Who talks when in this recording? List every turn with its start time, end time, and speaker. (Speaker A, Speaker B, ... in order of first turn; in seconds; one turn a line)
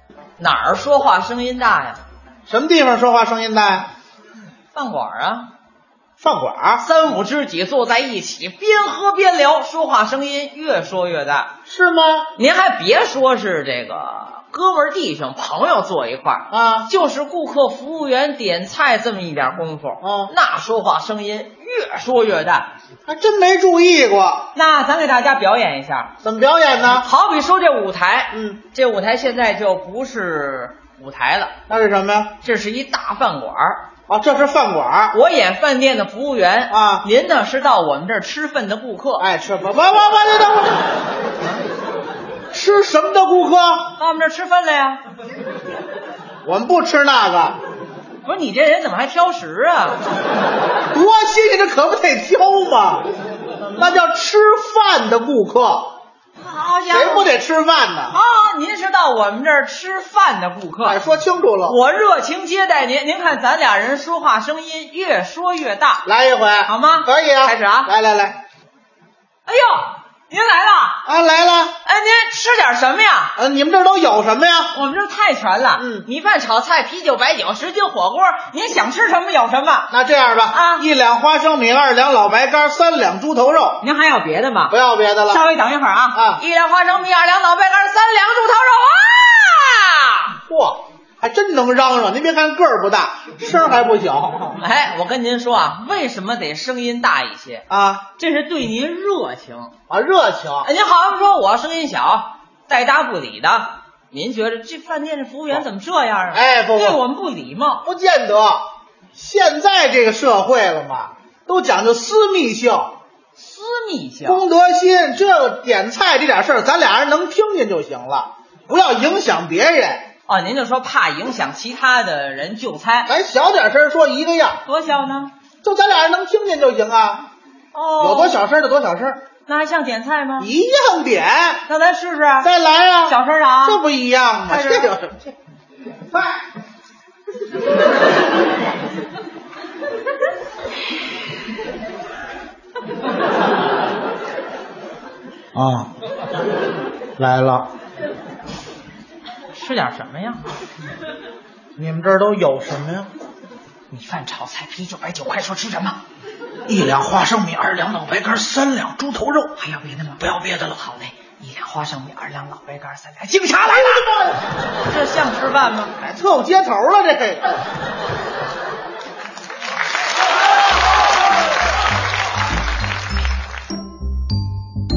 Speaker A: 0.4-2.0
Speaker B: 2.5-3.9
Speaker A: 4.7-5.5
Speaker B: 6.2-6.8
Speaker A: 6.8-11.5
Speaker B: 11.7-12.3
Speaker A: 12.3-22.7
Speaker B: 16.5-16.9
Speaker B: 20.0-20.3
Speaker B: 23.1-24.5
Speaker A: 24.5-26.1
Speaker B: 26.2-27.1
Speaker A: 27.0-31.5
Speaker B: 28.3-28.6
Speaker B: 31.7-32.4
Speaker A: 32.4-33.8
Speaker B: 34.1-35.1
Speaker A: 35.1-39.3
Speaker B: 36.7-37.1
Speaker B: 39.2-40.9
Speaker B: 42.5-44.0
Speaker A: 44.0-45.0
Speaker B: 46.4-47.6
Speaker A: 48.2-50.0
Speaker B: 50.9-53.1
Speaker B: 53.7-55.9
Speaker A: 56.4-57.3
Speaker B: 56.9-58.2
Speaker A: 58.1-61.0
Speaker B: 60.8-61.8
Speaker A: 61.6-66.0
Speaker B: 66.0-68.4
Speaker A: 66.7-67.9
Speaker A: 69.5-71.0
Speaker B: 71.0-71.8
Speaker A: 71.8-73.3
Speaker B: 73.3-74.7
Speaker A: 74.7-79.9
Speaker B: 75.8-76.0
Speaker B: 79.9-83.8
Speaker A: 80.5-80.8
Speaker A: 83.8-90.4
Speaker B: 84.7-85.5
Speaker B: 86.1-86.4
Speaker B: 90.5-94.6
Speaker A: 94.5-99.7
Speaker B: 97.7-98.0
Speaker B: 99.9-100.7
Speaker A: 100.6-107.8
Speaker B: 106.3-107.0
Speaker B: 107.8-112.9
Speaker A: 113.3-114.4
Speaker B: 114.2-120.0
Speaker A: 120.3-123.1
Speaker B: 123.1-124.6
Speaker A: 124.6-125.3
Speaker B: 125.6-127.2
Speaker A: 127.7-128.4
Speaker B: 128.0-129.2
Speaker A: 129.4-130.5
Speaker B: 130.4-131.6
Speaker A: 131.6-132.5
Speaker B: 132.4-135.3
Speaker A: 133.1-133.8
Speaker A: 134.5-134.9
Speaker B: 145.5-145.9
Speaker B: 147.2-147.7
Speaker A: 149.5-150.5
Speaker B: 151.8-153.1
Speaker A: 153.9-156.0
Speaker B: 156.7-159.6
Speaker A: 159.6-164.1
Speaker B: 163.6-164.4
Speaker A: 164.8-165.9
Speaker B: 166.0-167.4